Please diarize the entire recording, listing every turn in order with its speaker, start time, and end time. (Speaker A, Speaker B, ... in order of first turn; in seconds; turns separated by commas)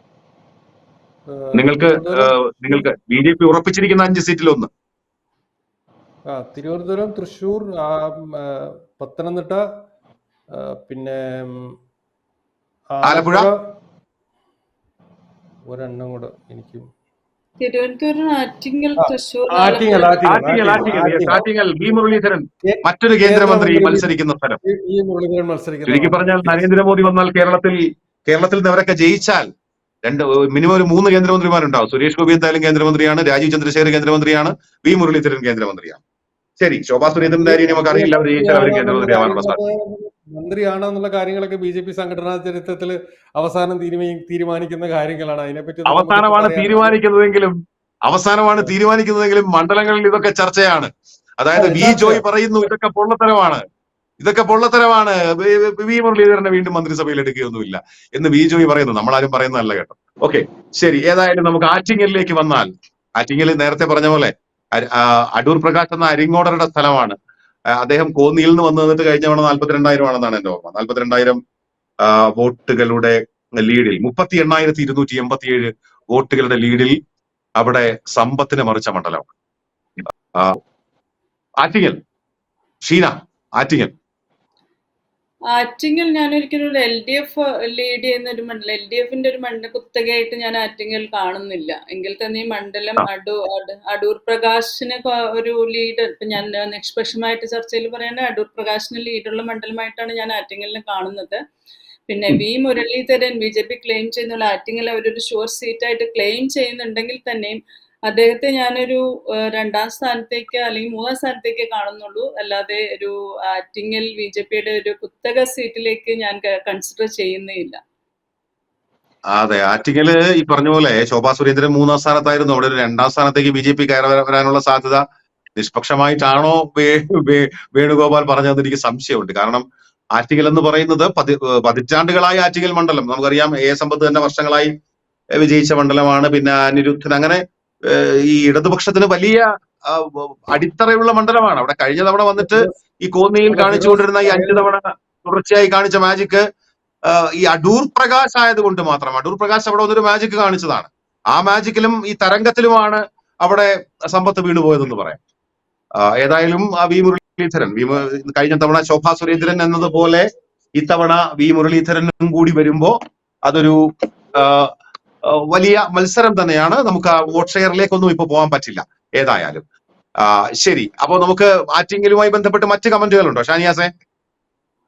Speaker A: 1.3-2.8, Speaker B: 1.5-4.7, Speaker A: 6.3-9.6, Speaker A: 10.5-11.7, Speaker A: 12.9-13.6, Speaker B: 13.0-13.5, Speaker A: 15.7-16.9, Speaker C: 17.6-20.8, Speaker A: 19.0-21.4, Speaker B: 20.2-24.6, Speaker A: 22.6-24.1, Speaker A: 24.6-26.6, Speaker B: 25.9-29.5, Speaker B: 30.0-36.0, Speaker B: 36.6-39.6, Speaker A: 37.1-47.0, Speaker B: 45.9-47.5, Speaker B: 48.1-53.6, Speaker A: 51.5-52.2, Speaker B: 54.2-67.2, Speaker B: 67.8-71.4, Speaker B: 72.0-77.0, Speaker B: 77.6-79.3, Speaker B: 81.6-82.0, Speaker B: 82.8-83.9, Speaker C: 85.5-101.4, Speaker C: 102.1-117.8, Speaker B: 119.3-125.0, Speaker B: 125.6-129.6, Speaker B: 130.2-134.7, Speaker B: 135.4-146.4, Speaker A: 142.4-142.7, Speaker A: 143.4-144.7, Speaker B: 147.1-155.2, Speaker B: 156.0-160.2, Speaker B: 160.8-162.9, Speaker B: 163.5-163.8, Speaker B: 164.3-164.7, Speaker B: 165.4-169.6, Speaker B: 170.2-173.9